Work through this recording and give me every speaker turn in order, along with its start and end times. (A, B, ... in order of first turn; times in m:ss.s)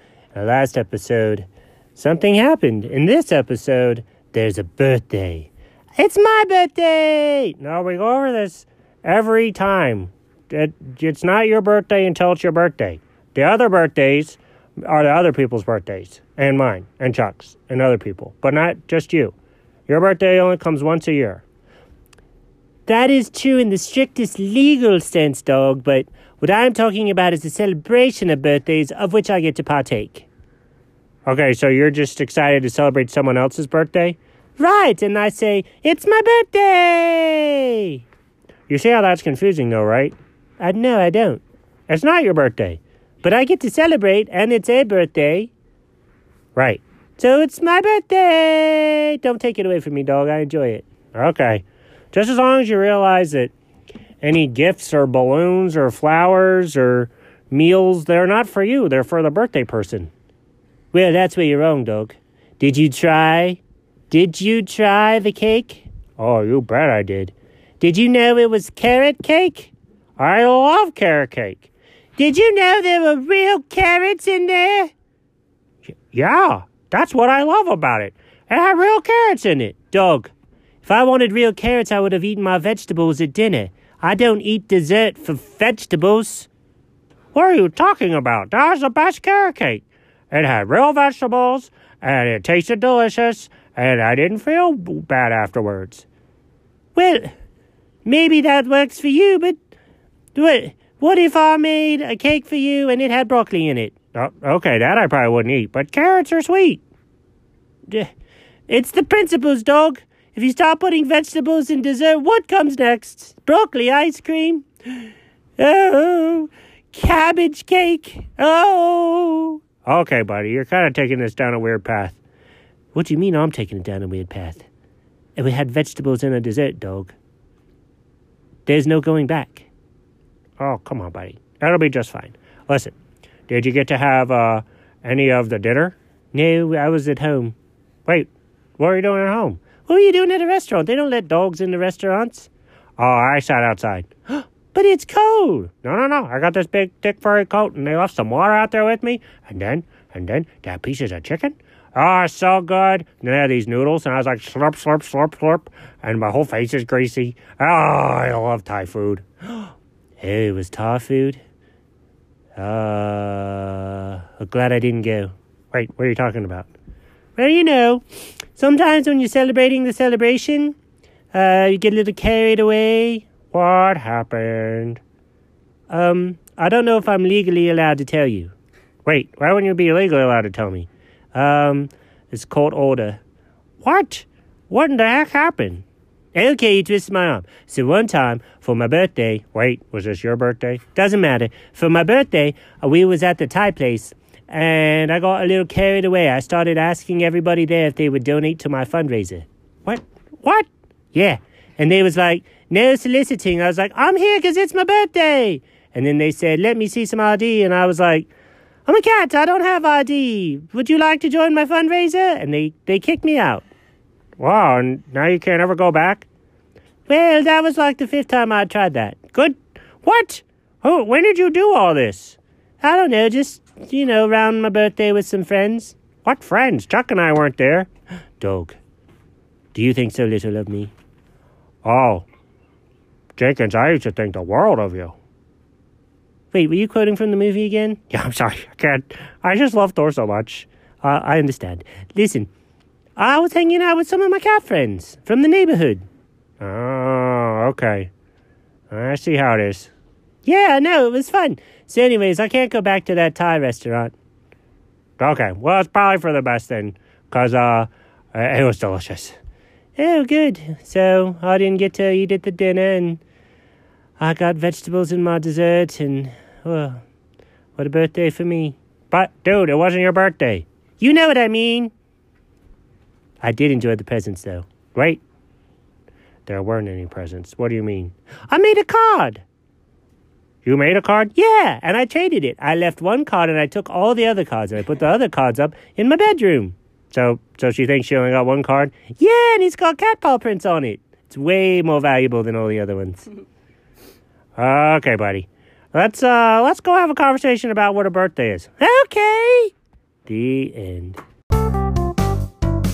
0:00.3-0:19.3 A
0:19.9-0:21.4 A
0:22.9-0:30.3 A
0:31.3-0:38.0 A
0:38.7-0:45.5 A
0:46.5-0:53.5 A
0:54.2-1:00.1 A
1:00.9-1:14.9 A
1:15.8-1:26.5 A
1:27.3-1:36.0 A
1:36.9-1:37.3 A
1:38.0-1:39.6 A
1:40.3-1:46.8 A
1:48.7-2:02.2 A
2:02.9-2:04.7 A
2:05.4-2:07.1 A
2:08.6-2:09.7 A
2:10.6-2:12.9 A
2:13.5-2:17.5 A
2:18.0-2:41.4 A
2:42.6-2:46.7 A
2:47.4-2:48.0 A
2:48.6-2:50.8 A
2:51.3-2:55.0 A
2:55.9-2:58.5 A
2:59.0-3:03.2 A
3:03.8-3:28.3 A
3:28.8-3:33.6 A
3:34.4-3:36.3 A
3:37.1-3:48.8 A
3:49.7-3:50.9 A
3:51.8-3:52.2 A
3:53.4-3:55.1 A
3:56.5-4:02.5 A
4:03.2-4:06.0 A
4:06.6-4:08.1 A
4:08.9-4:09.9 A
4:10.4-4:14.1 A
4:15.2-4:19.4 A
4:20.0-4:23.2 A
4:24.2-4:27.0 A
4:27.8-4:31.9 A
4:33.4-4:35.2 A
4:36.4-4:39.4 A
4:40.6-4:53.2 A
4:54.6-4:59.7 A
5:00.2-5:01.2 A